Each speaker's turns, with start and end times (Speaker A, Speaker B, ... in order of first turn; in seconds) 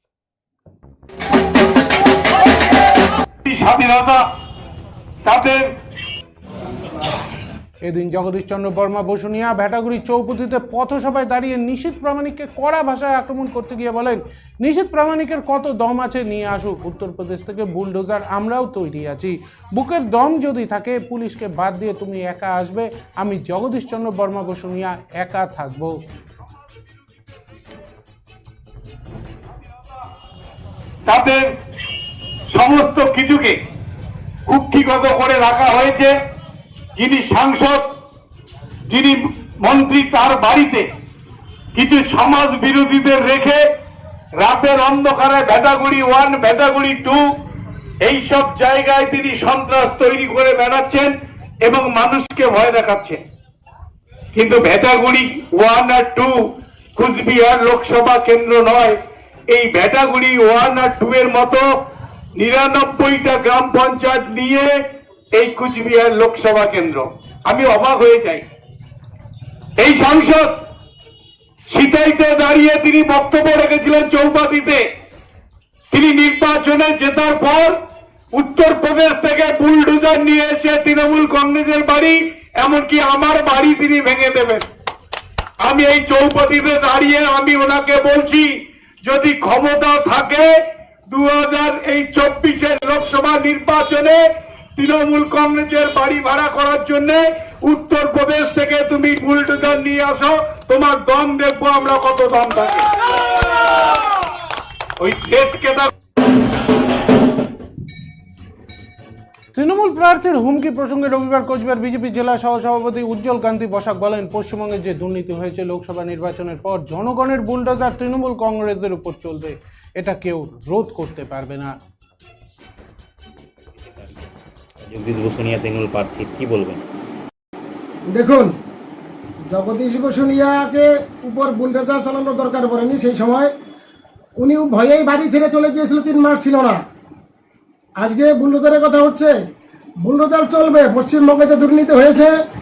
Speaker A: 3.4-4.2, 5.2-5.7, 31.1-31.4, 32.5-33.6, 34.5-36.1, 37.0-37.9, 38.9-40.9, 41.8-43.6, 44.4-47.2, 48.0-51.1, 51.6-53.2, 54.3-56.4, 57.0-59.0, 59.5-61.7, 62.4-64.7, 65.3-68.5, 69.8-70.6, 71.7-74.8, 75.9-77.8, 78.3-84.6, 85.6-88.5, 89.0-90.5, 91.1-94.2, 94.8-102.9, 105.0-105.9
Speaker B: 7.9-26.0, 109.5-121.7
Speaker C: 124.8-126.8
Speaker D: 128.1-128.5, 129.5-133.5, 134.4-136.8, 138.0-139.3, 140.0-142.4